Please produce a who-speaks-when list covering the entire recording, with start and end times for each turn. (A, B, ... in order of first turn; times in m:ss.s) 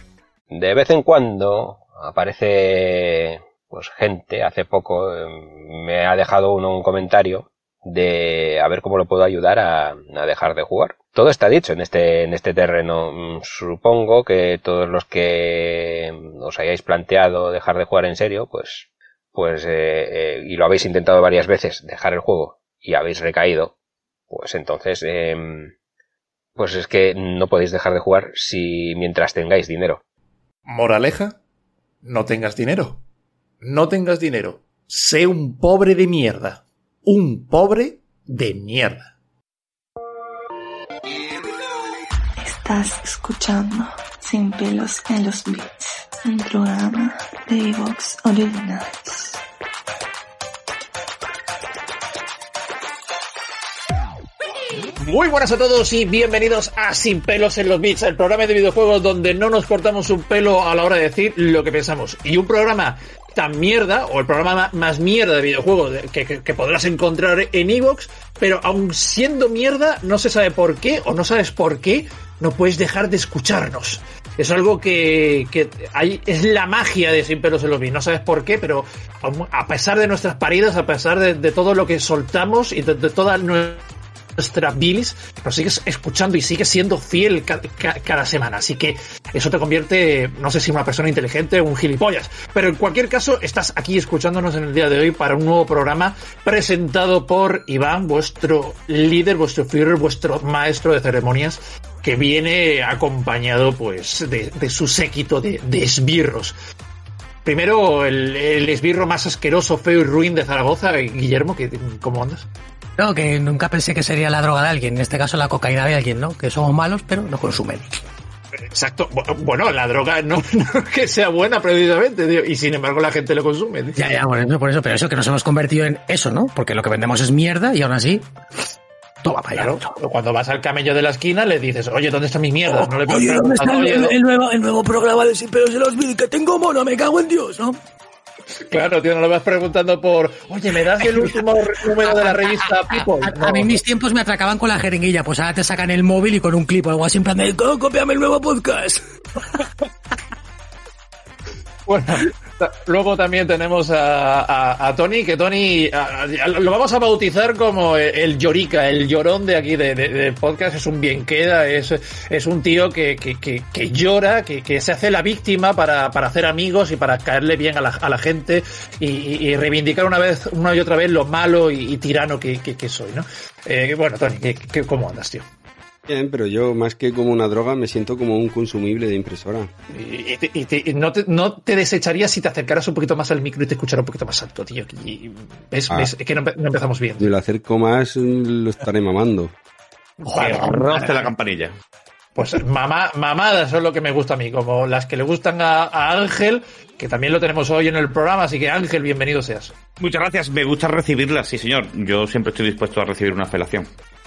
0:00.5-0:23.7 A
0:24.3-0:25.7 A
0:26.6-0:30.0 A
0:30.7-0:31.4 B
0:32.0-0:33.0 B
0:33.6-0:39.1 B
0:42.4-0:49.4 C
0:55.0-1:23.8 B
1:24.4-1:46.5 B
1:47.4-1:52.5 B
1:53.0-1:57.9 D
1:58.7-2:04.0 B
2:03.9-2:08.3 D
2:09.2-2:09.9 D
2:09.6-2:14.2 B
2:12.6-2:17.8 D
2:18.7-2:23.8 B
2:21.0-2:21.4 D
2:21.9-2:29.0 D
2:31.8-2:55.4 B
2:56.1-2:59.7 E
2:59.9-3:07.3 B
3:07.2-3:09.5 E
3:10.2-3:11.3 B
3:10.4-3:11.1 D
3:10.5-3:11.7 F
3:12.4-3:19.8 B
3:20.0-3:23.9 F